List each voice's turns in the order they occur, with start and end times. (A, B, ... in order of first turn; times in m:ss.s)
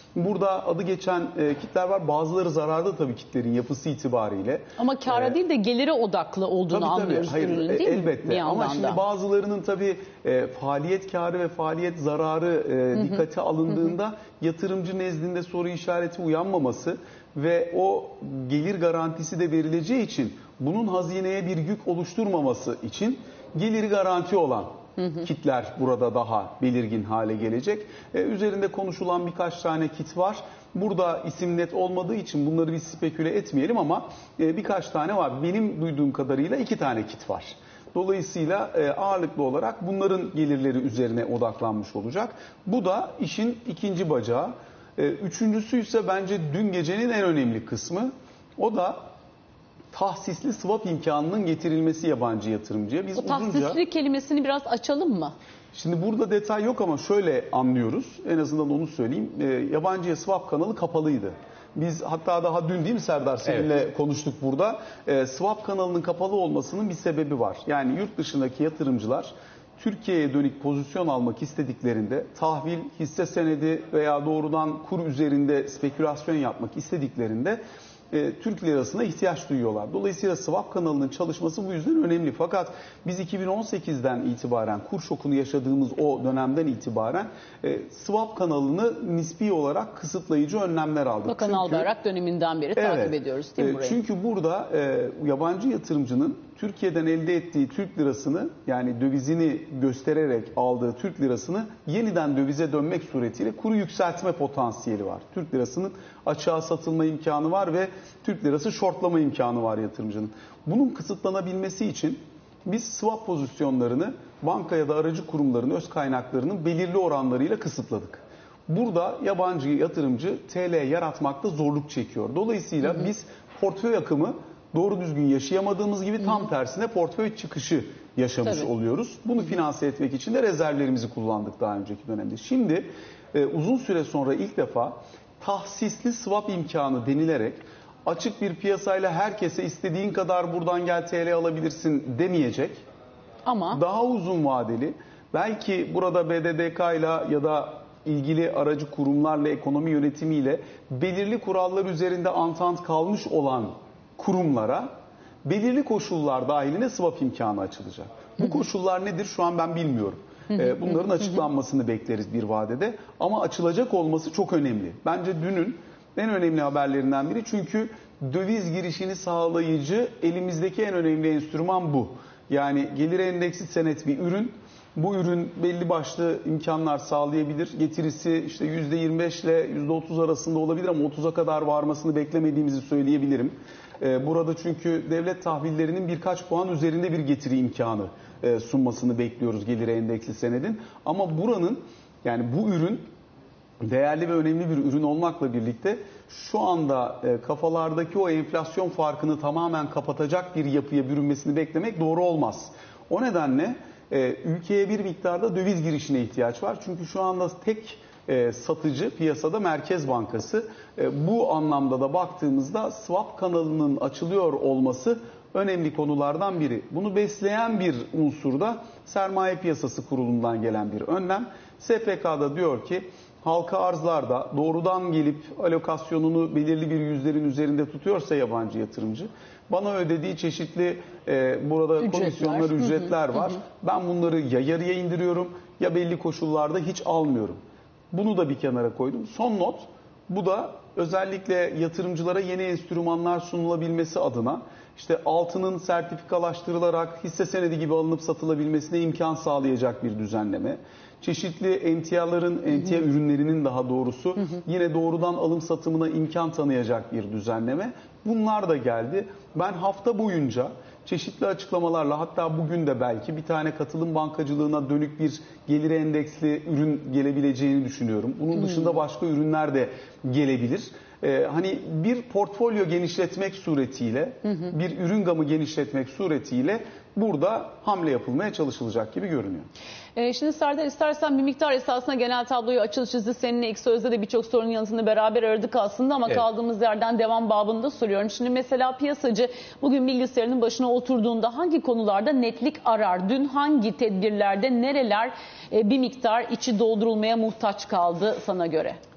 0:00.2-0:05.4 A
0:04.8-0:09.0 B
0:06.7-0:49.0 A
0:49.9-0:53.8 A
0:53.2-0:55.4 B
0:55.7-1:17.6 A
1:18.1-1:31.9 A
1:31.3-1:34.0 B
1:32.8-2:22.8 A
2:23.5-2:23.8 B
2:23.7-2:34.9 A
2:35.4-3:13.1 A
3:13.8-3:57.6 A
3:52.0-3:53.1 B
3:58.1-4:39.7 A
4:40.2-4:59.0 B